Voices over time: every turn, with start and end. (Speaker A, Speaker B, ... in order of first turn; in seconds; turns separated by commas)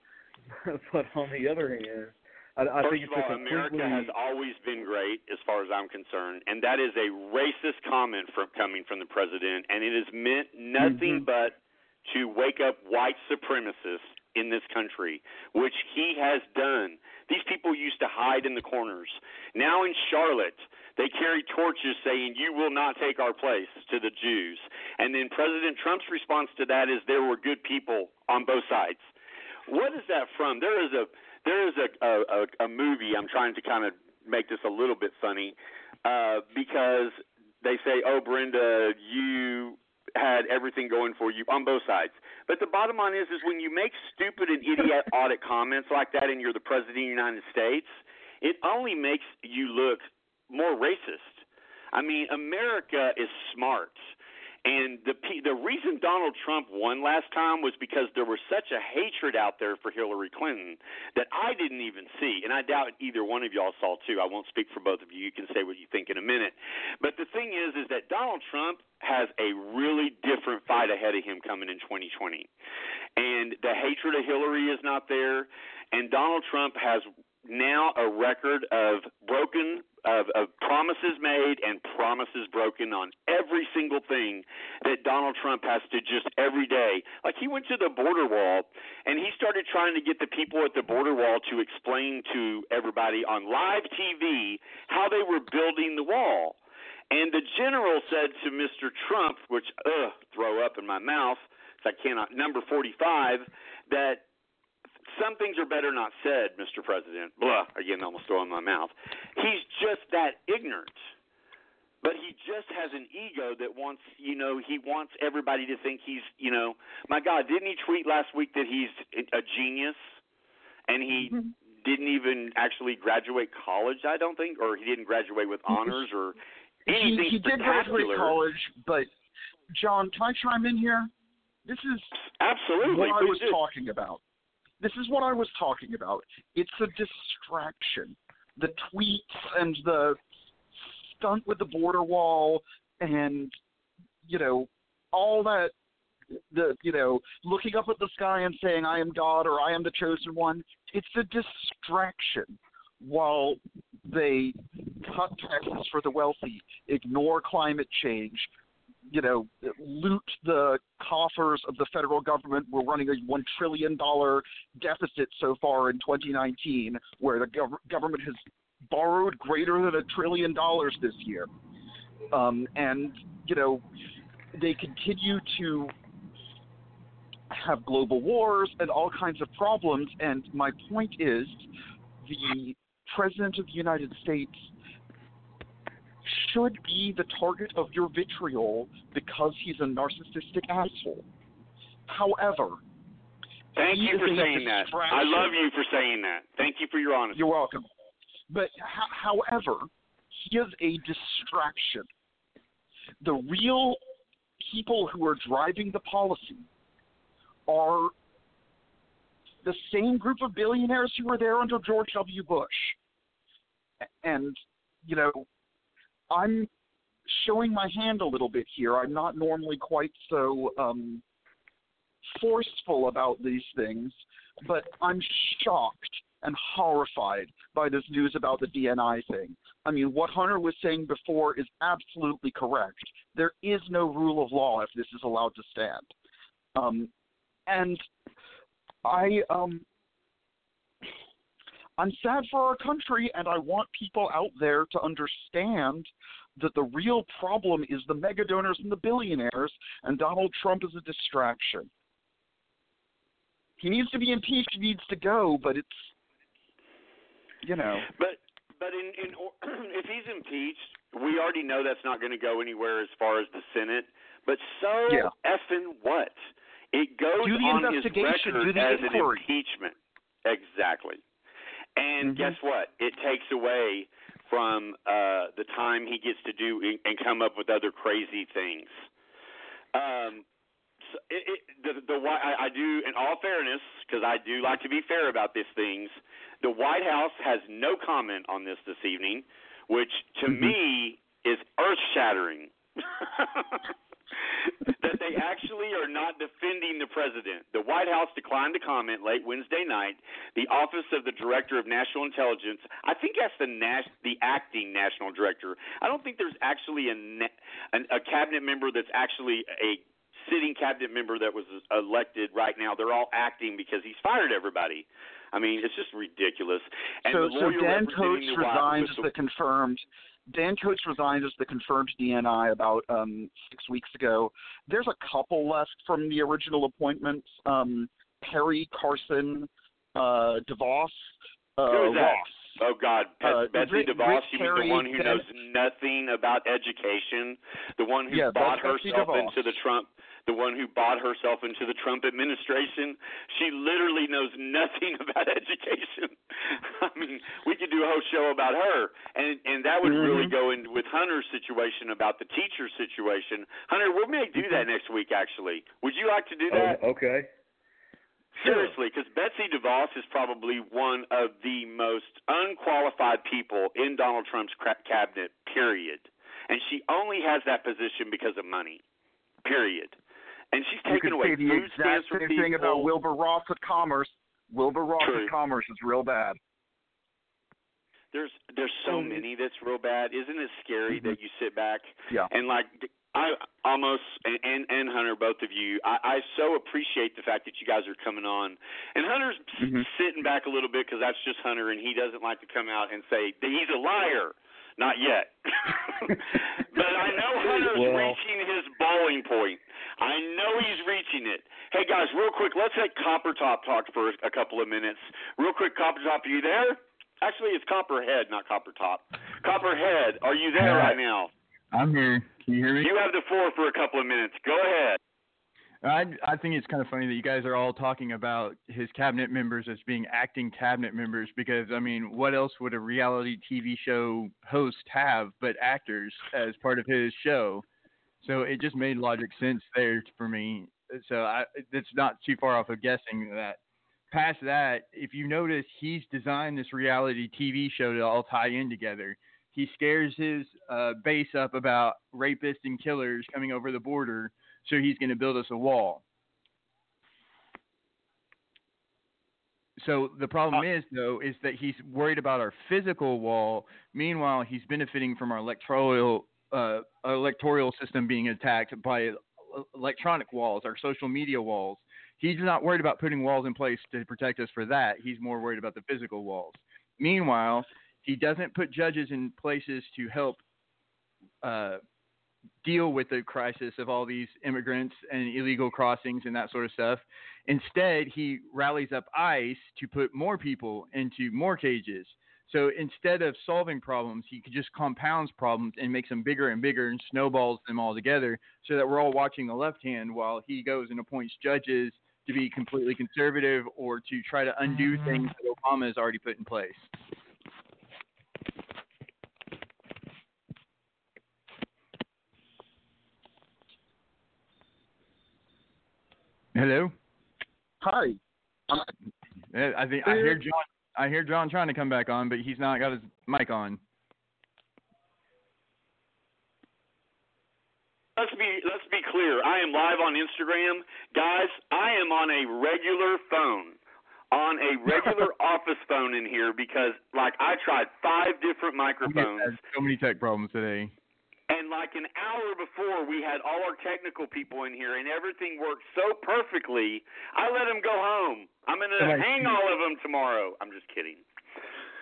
Speaker A: 0.7-4.1, Speaker B: 2.8-29.1, Speaker C: 10.8-11.2, Speaker B: 29.7-54.0, Speaker B: 54.6-72.5, Speaker B: 73.2-96.6, Speaker B: 97.1-104.2, Speaker B: 105.1-111.1, Speaker B: 112.0-120.1, Speaker B: 120.9-128.4, Speaker C: 121.1-121.5, Speaker C: 125.7-126.0, Speaker C: 126.9-129.1, Speaker C: 129.7-131.1, Speaker C: 131.7-132.1, Speaker B: 132.4-133.6, Speaker C: 132.8-134.2, Speaker C: 134.8-140.2, Speaker C: 140.9-143.6, Speaker C: 144.2-145.7, Speaker C: 146.5-158.5, Speaker C: 159.1-171.5, Speaker C: 172.3-173.8, Speaker C: 174.5-175.9, Speaker C: 177.5-181.7, Speaker C: 182.2-184.7, Speaker C: 186.2-191.2, Speaker C: 192.1-192.8, Speaker B: 193.8-197.4, Speaker C: 193.9-195.5, Speaker C: 197.3-197.9, Speaker C: 198.5-199.9, Speaker C: 200.4-202.1, Speaker C: 203.2-204.0, Speaker C: 204.6-206.7, Speaker C: 207.7-208.1, Speaker C: 209.6-213.0, Speaker C: 214.2-215.5, Speaker C: 216.3-216.7, Speaker C: 217.3-221.2, Speaker C: 222.3-236.1, Speaker C: 236.8-237.1, Speaker C: 237.7-238.1, Speaker C: 239.0-239.8, Speaker C: 242.0-251.9, Speaker C: 253.8-256.1, Speaker C: 257.6-258.1, Speaker B: 258.1-266.4, Speaker B: 266.9-269.9, Speaker C: 267.4-269.4, Speaker B: 270.4-271.2, Speaker B: 272.0-279.0, Speaker C: 272.2-272.6, Speaker B: 279.9-280.4, Speaker B: 281.1-293.9, Speaker B: 294.6-319.3, Speaker C: 317.3-332.8, Speaker B: 331.9-357.0, Speaker C: 333.4-335.5, Speaker C: 338.3-339.7, Speaker C: 350.1-350.5, Speaker A: 356.7-357.5, Speaker B: 358.6-369.0, Speaker A: 358.6-358.9, Speaker B: 369.6-370.2, Speaker B: 370.7-373.1, Speaker C: 371.1-376.6, Speaker B: 375.2-375.5, Speaker B: 378.3-411.5, Speaker A: 379.1-379.4, Speaker C: 389.8-390.1, Speaker A: 397.9-398.4, Speaker D: 410.8-411.2, Speaker D: 411.9-413.1, Speaker B: 413.0-415.2, Speaker D: 416.0-427.8, Speaker D: 428.4-433.8, Speaker D: 434.3-446.2, Speaker D: 450.0-470.6, Speaker D: 471.6-472.0, Speaker D: 472.8-497.1, Speaker D: 506.8-507.1, Speaker C: 508.0-508.4, Speaker D: 509.7-514.0, Speaker C: 510.3-510.6, Speaker B: 518.4-524.0, Speaker B: 524.5-529.8, Speaker D: 529.2-531.1, Speaker B: 531.7-541.4, Speaker D: 539.2-539.8